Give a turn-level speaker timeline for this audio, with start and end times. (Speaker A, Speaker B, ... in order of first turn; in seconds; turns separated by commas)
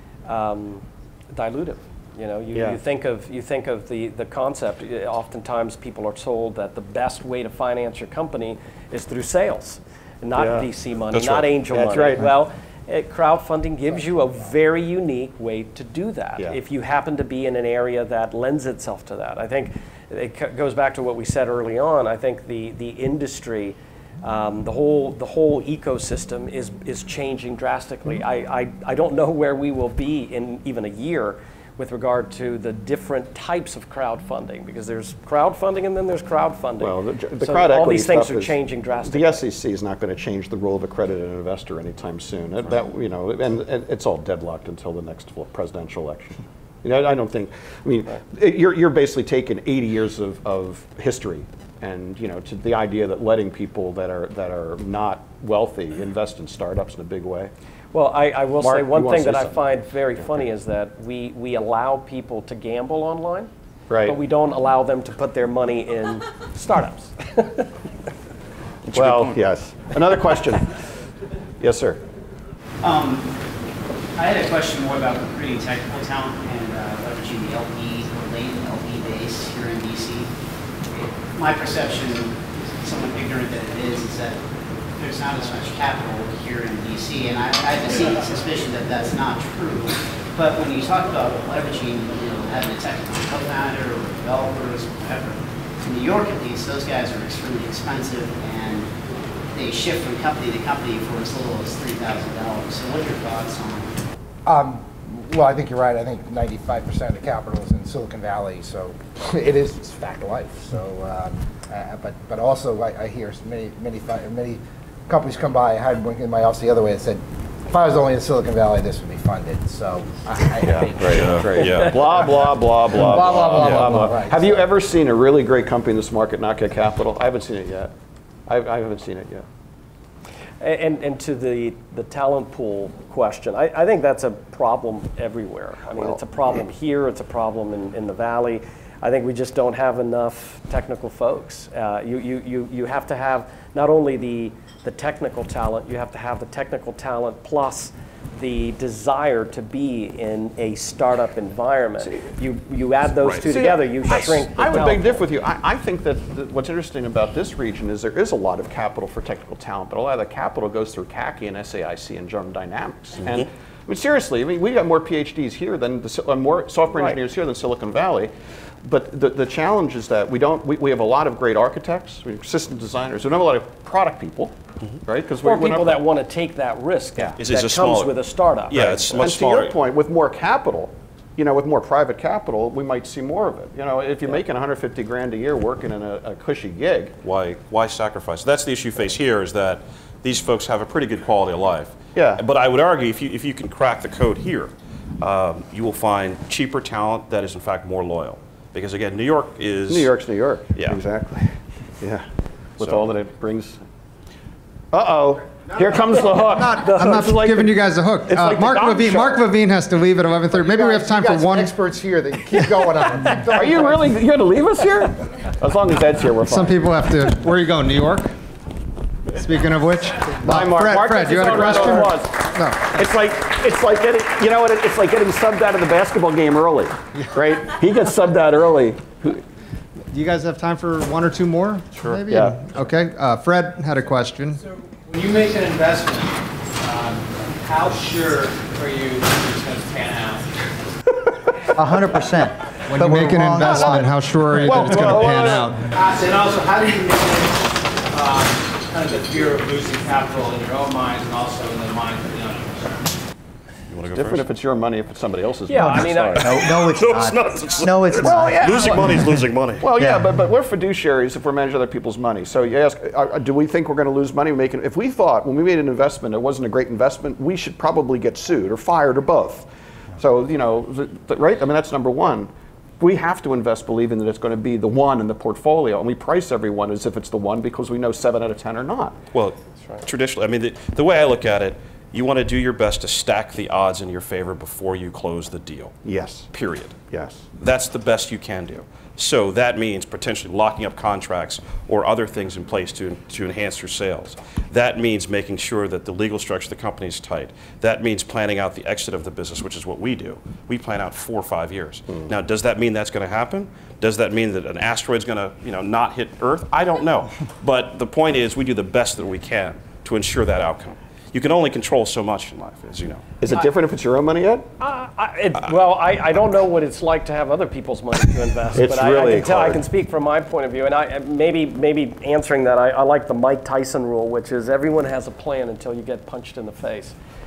Speaker A: 0.3-39.4, Speaker B: 2.5-2.8, Speaker B: 10.3-12.3, Speaker B: 36.8-57.5, Speaker A: 57.9-63.5, Speaker B: 58.6-59.6, Speaker B: 63.9-64.2, Speaker A: 64.0-67.7, Speaker C: 68.9-69.4, Speaker B: 68.9-70.8, Speaker B: 71.6-72.0, Speaker D: 72.8-73.3, Speaker D: 74.2-80.3, Speaker D: 81.3-84.4, Speaker D: 85.0-98.9, Speaker D: 99.5-103.9, Speaker E: 104.5-124.7, Speaker B: 120.6-127.9, Speaker C: 121.1-122.3, Speaker C: 123.6-124.0, Speaker B: 128.5-129.5, Speaker A: 130.6-155.2, Speaker B: 153.4-168.3, Speaker B: 168.8-176.1, Speaker A: 175.4-179.2, Speaker C: 177.4-178.2, Speaker C: 178.7-179.8, Speaker B: 178.7-187.2, Speaker C: 187.2-200.1, Speaker B: 192.1-192.4, Speaker B: 199.9-202.3, Speaker B: 202.8-203.8, Speaker C: 202.8-203.1, Speaker B: 204.9-207.7, Speaker F: 206.2-211.7, Speaker B: 208.3-209.4, Speaker E: 210.5-214.2, Speaker B: 213.5-216.8, Speaker F: 216.4-218.3, Speaker F: 219.3-223.0, Speaker B: 220.4-229.4, Speaker F: 230.1-234.6, Speaker B: 232.0-232.8, Speaker G: 235.1-240.5, Speaker H: 241.7-245.1, Speaker F: 242.9-245.9, Speaker B: 243.6-245.7, Speaker G: 245.9-252.9, Speaker C: 253.9-254.5, Speaker B: 254.1-256.6, Speaker A: 255.7-256.5, Speaker H: 256.4-259.3, Speaker C: 256.8-259.9, Speaker B: 258.2-259.3, Speaker B: 259.8-279.2, Speaker H: 260.0-260.3, Speaker C: 279.3-285.9, Speaker B: 286.1-286.5, Speaker C: 286.5-313.3, Speaker B: 287.1-287.5, Speaker B: 313.4-314.7, Speaker A: 314.8-327.2, Speaker B: 318.7-319.8